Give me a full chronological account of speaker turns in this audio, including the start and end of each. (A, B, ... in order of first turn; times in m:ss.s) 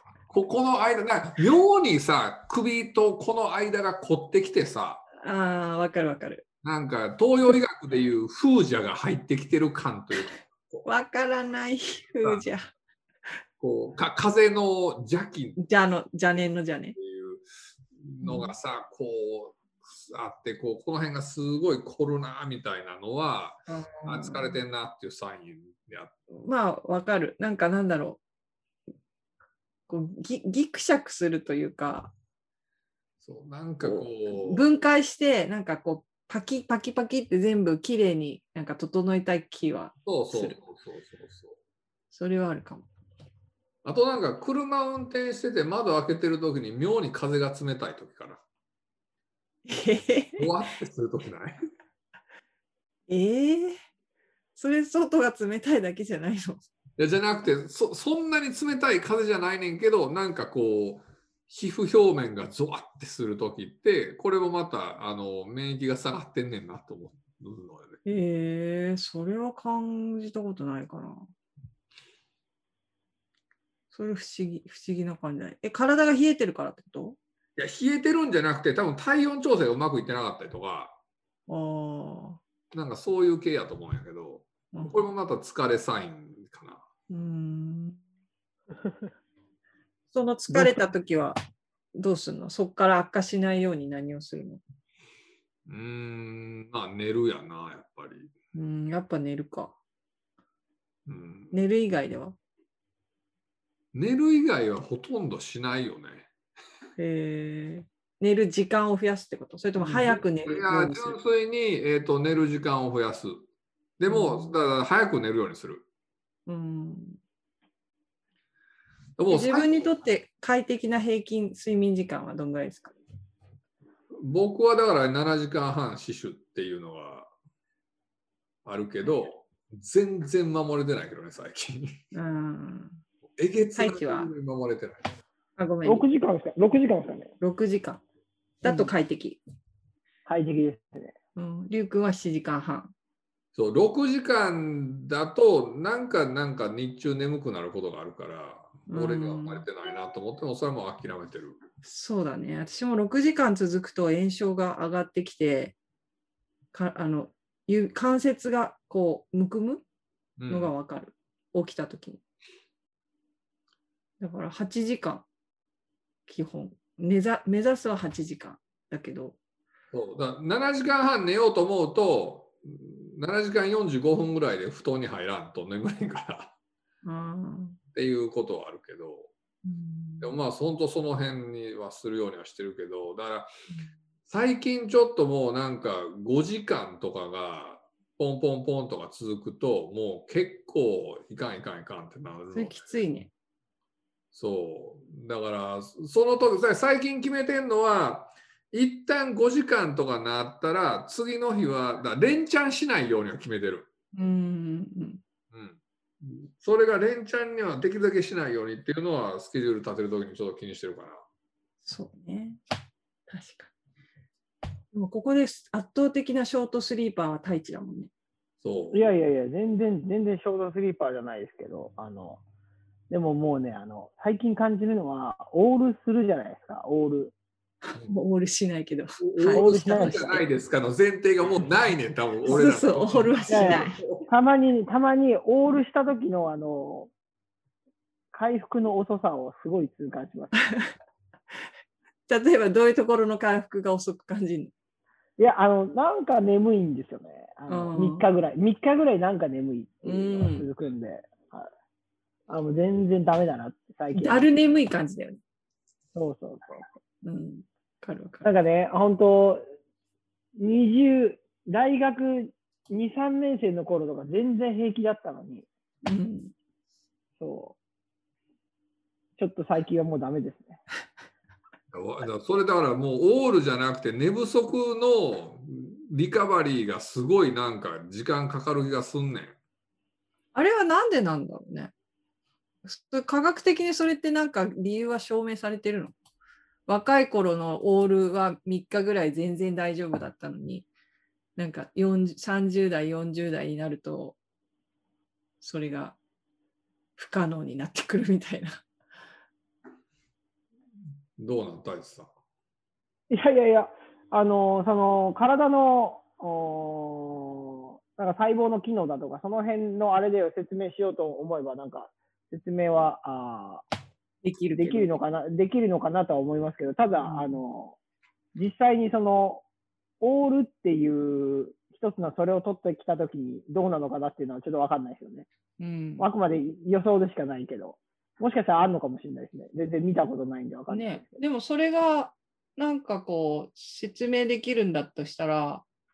0:00.3-0:05.0 A
0:05.2-0:06.4 B
0:06.6-0:10.8 A
0:10.8-0:12.7 B
0:13.6-0:15.6 A
0:15.6-0:17.0 B
0:17.0-0:17.4 A
0:18.0-0:26.1 A
0:18.2-0:18.5 B
0:23.7-0:24.5 B
0:26.3-0:28.2 B
0:29.9-0:32.1 B
0:33.2-0:34.6 A
0:33.8-0:40.6 B
0:40.0-0:41.5 A
0:42.1-0:42.9 B
0:43.8-0:48.4 A
0:49.6-0:50.5 B
0:50.4-0:51.6 A
0:53.1-0:53.8 B
0:54.6-0:56.7 B
0:57.0-1:08.0 A
1:08.0-1:11.2 B
1:13.9-1:17.2 B
1:17.6-1:21.0 A
1:21.5-1:22.4 B
1:22.7-1:26.8 A
1:24.7-1:25.0 B
1:27.1-1:28.0 B
1:30.1-1:31.4 B
1:30.5-1:30.8 A
1:31.9-1:34.6 B
1:35.7-1:38.3 A
1:38.5-1:39.8 B
1:41.1-1:41.5 A
1:41.5-1:42.4 B
1:43.9-1:46.3 A
1:47.0-1:51.2 B
1:49.8-1:53.4 A
1:54.0-1:55.8 A
1:54.1-1:54.5 B
1:56.5-1:57.2 B
1:59.2-1:59.9 A
1:59.3-2:03.0 B
2:04.2-2:07.3 A
2:08.6-2:12.0 A
2:12.1-2:13.0 B
2:13.4-2:15.1 A
2:13.8-2:14.3 B
2:15.6-2:16.0 B
2:15.8-2:17.3 C
2:17.4-2:18.0 B
2:18.6-2:19.4 B
2:20.2-2:21.1 C
2:21.4-2:22.9 B
2:23.5-2:31.6 A
2:28.9-2:29.6 B
2:31.8-2:35.7 B
2:36.7-2:39.8 B
2:40.4-2:40.7 A
2:40.5-2:42.2 B
2:44.2-2:45.2 B
2:46.2-2:49.4 B
2:49.9-2:56.5 A
2:57.0-2:57.8 B
2:57.9-2:59.3 A
2:59.6-3:00.3 B
3:00.2-3:03.5 A
3:04.3-3:13.0 A
3:12.5-3:13.3 B
3:14.3-3:23.9 A
3:24.1-3:25.2 B
3:25.5-3:31.2 A
3:31.8-3:32.6 B
3:33.3-3:33.7 B
3:34.9-3:38.1 B
3:38.6-3:39.1 A
3:38.9-3:42.4 C
3:43.1-3:47.3 C
3:47.8-3:50.4 B
3:49.2-3:54.2 A
3:49.5-3:50.3 C
3:52.5-3:54.0 B
3:53.5-3:57.1 C
3:58.3-4:00.5 C
4:02.3-4:04.7 B
4:05.4-4:11.7 C
4:07.7-4:08.2 B
4:10.0-4:10.7 B
4:12.5-4:14.4 C
4:14.1-4:15.4 B
4:16.1-4:16.9 C
4:17.2-4:18.5 B
4:18.4-4:19.6 C
4:20.6-4:25.6 C
4:26.0-4:26.5 B
4:27.4-4:27.8 C
4:29.4-4:30.8 C
4:31.9-4:39.6 A
4:40.5-4:41.9 B
4:42.8-4:46.1 B
4:46.9-4:50.9 B
4:51.6-4:54.4 B
4:55.6-4:56.2 B
4:57.2-4:58.8 B
5:01.4-5:02.3 A
5:03.3-5:13.8 C
5:14.4-5:15.1 B
5:14.8-5:18.0 C
5:17.2-5:17.6 B
5:18.5-5:19.6 C
5:20.2-5:25.5 C
5:25.8-5:26.3 B
5:26.2-5:31.4 C
5:30.9-5:35.8 B